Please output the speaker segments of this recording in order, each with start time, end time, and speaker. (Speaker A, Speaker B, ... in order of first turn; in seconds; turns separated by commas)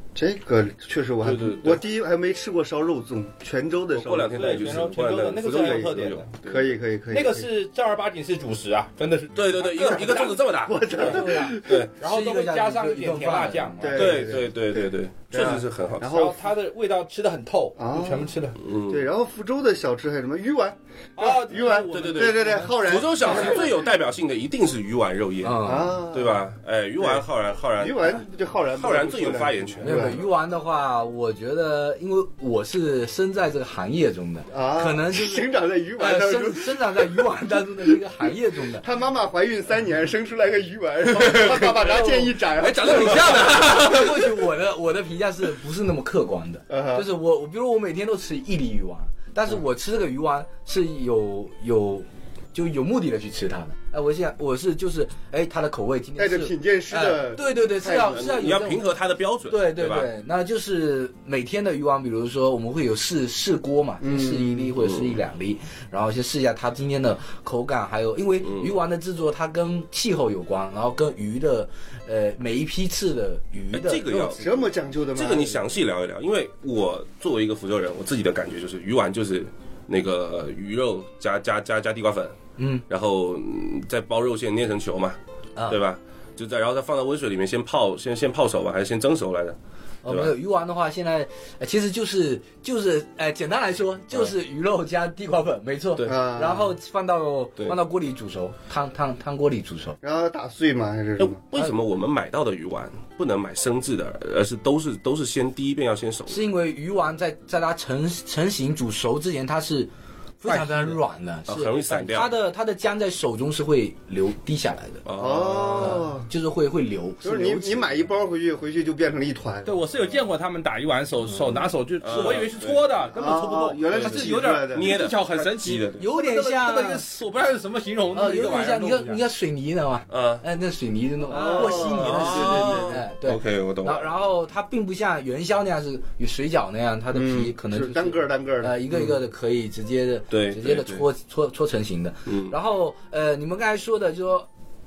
Speaker A: 0.1-4.9, Speaker B: 1.2-1.8, Speaker B: 3.9-6.7, Speaker C: 4.3-6.3, Speaker A: 5.5-5.9, Speaker A: 6.4-7.5, Speaker C: 7.1-9.5, Speaker B: 9.3-11.9, Speaker A: 9.6-11.9, Speaker D: 10.9-14.0, Speaker C: 11.9-14.2, Speaker A: 13.8-16.4, Speaker B: 13.9-16.1, Speaker C: 16.0-18.6, Speaker A: 17.8-18.3, Speaker B: 18.6-19.1, Speaker A: 18.9-23.8, Speaker C: 21.2-23.7, Speaker B: 21.9-30.1, Speaker D: 25.4-26.0, Speaker A: 25.6-26.5, Speaker A: 27.0-27.2, Speaker A: 27.8-30.3, Speaker D: 29.8-35.5, Speaker A: 34.5-37.0, Speaker D: 36.0-38.9, Speaker A: 38.8-43.6, Speaker B: 41.2-41.9, Speaker D: 42.0-42.3, Speaker B: 42.5-44.4, Speaker D: 42.8-58.8, Speaker A: 46.7-47.1, Speaker A: 56.2-58.3, Speaker B: 58.1-60.1, Speaker D: 59.5-74.5, Speaker A: 64.0-64.7, Speaker B: 64.8-65.2, Speaker B: 68.4-68.8, Speaker B: 73.7-74.5, Speaker A: 74.4-75.6, Speaker B: 75.1-82.4, Speaker D: 82.6-82.8, Speaker B: 82.9-90.3, Speaker D: 90.0-100.0, Speaker A: 96.0-96.7, Speaker A: 100.0-101.4, Speaker B: 101.2-106.4, Speaker D: 106.3-109.9, Speaker D: 110.4-115.1, Speaker C: 110.5-111.0, Speaker B: 111.5-112.3, Speaker B: 115.0-116.1, Speaker A: 115.2-116.3, Speaker D: 115.8-118.0, Speaker A: 117.2-119.7, Speaker C: 119.7-129.2, Speaker D: 121.4-122.4, Speaker B: 122.0-122.8, Speaker A: 123.1-124.9, Speaker B: 123.9-126.1, Speaker D: 126.0-127.0, Speaker D: 128.1-144.5, Speaker B: 130.1-130.4, Speaker A: 131.3-133.0, Speaker C: 131.3-131.9, Speaker B: 131.8-134.1, Speaker A: 137.1-139.0, Speaker B: 140.3-141.1, Speaker B: 142.3-142.6